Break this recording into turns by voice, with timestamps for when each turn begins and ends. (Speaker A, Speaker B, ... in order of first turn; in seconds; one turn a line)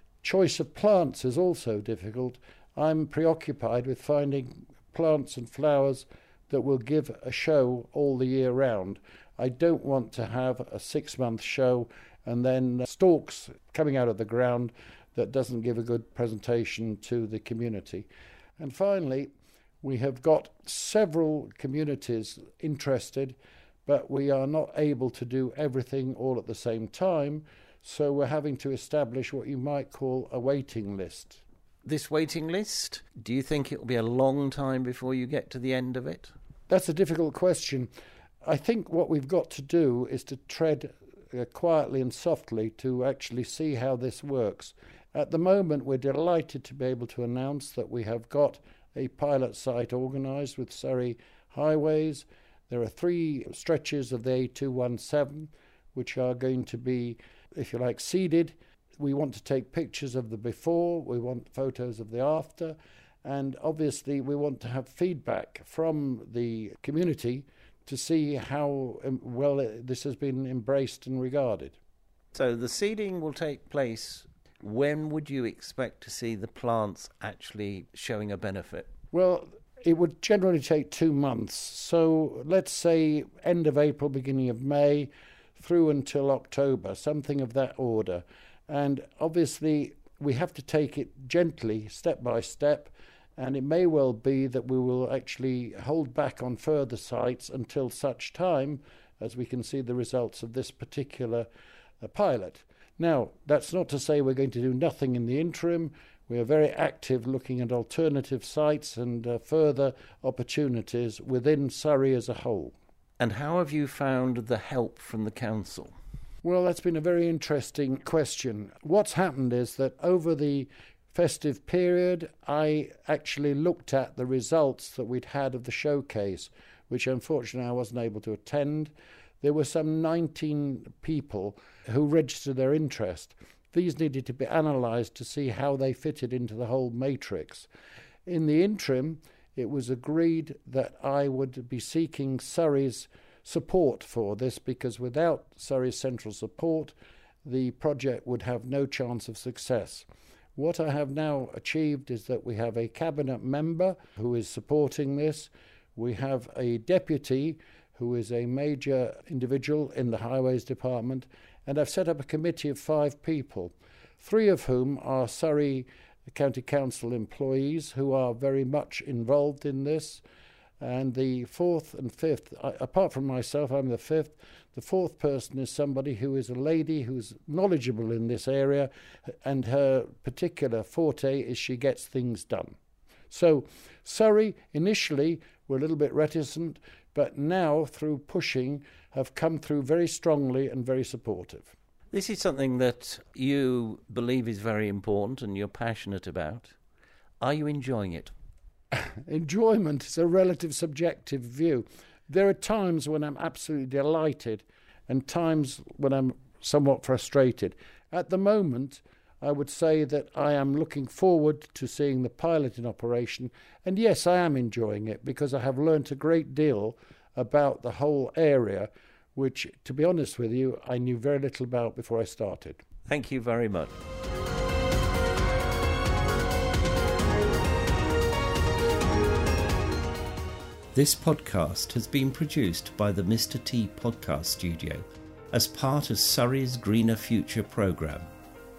Speaker A: 0.2-18.1
Speaker A: 18.6-19.3
Speaker A: 19.8-31.4
Speaker B: 31.8-36.3
Speaker A: 36.7-37.9
Speaker A: 38.4-71.8
Speaker B: 72.3-78.9
Speaker A: 79.1-101.5
Speaker A: 102.0-112.7
Speaker B: 113.2-115.9
Speaker A: 116.4-137.7
Speaker A: 138.2-170.2
Speaker A: 170.8-178.9
Speaker A: 179.4-182.8
Speaker A: 183.3-191.7
Speaker B: 192.1-196.8
Speaker B: 197.4-198.3
Speaker A: 198.9-222.8
Speaker B: 223.1-224.0
Speaker B: 230.9-238.3